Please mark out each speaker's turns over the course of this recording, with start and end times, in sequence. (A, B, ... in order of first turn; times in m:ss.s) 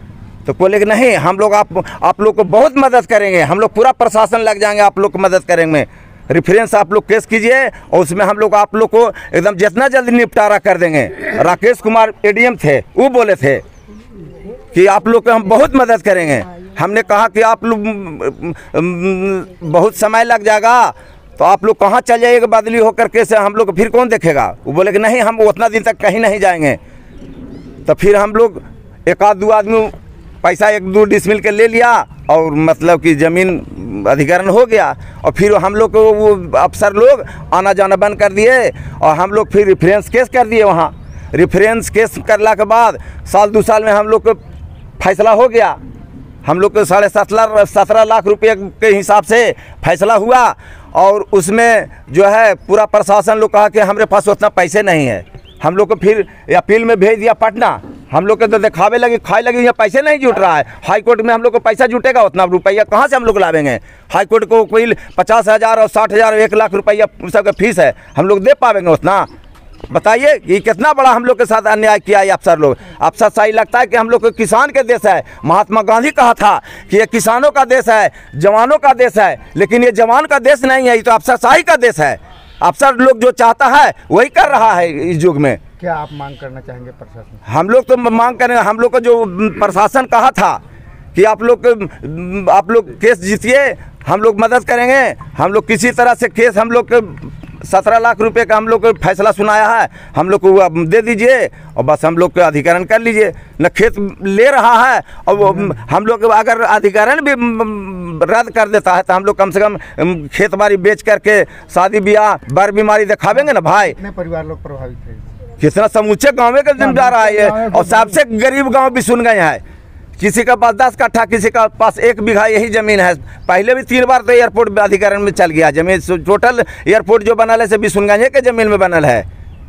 0:00.4-0:13.6 A
0:14.7-0:26.8 A
0:27.8-0:44.4 A
0:45.0-0:45.8 A
0:46.4-1:09.3 A
1:09.9-1:25.6 A
1:25.8-1:27.4 B
1:27.5-1:30.6 A
1:31.1-1:54.0 A
1:53.8-1:55.3 B
1:55.6-1:59.6 A
1:57.0-1:57.8 B
2:00.2-2:09.2 A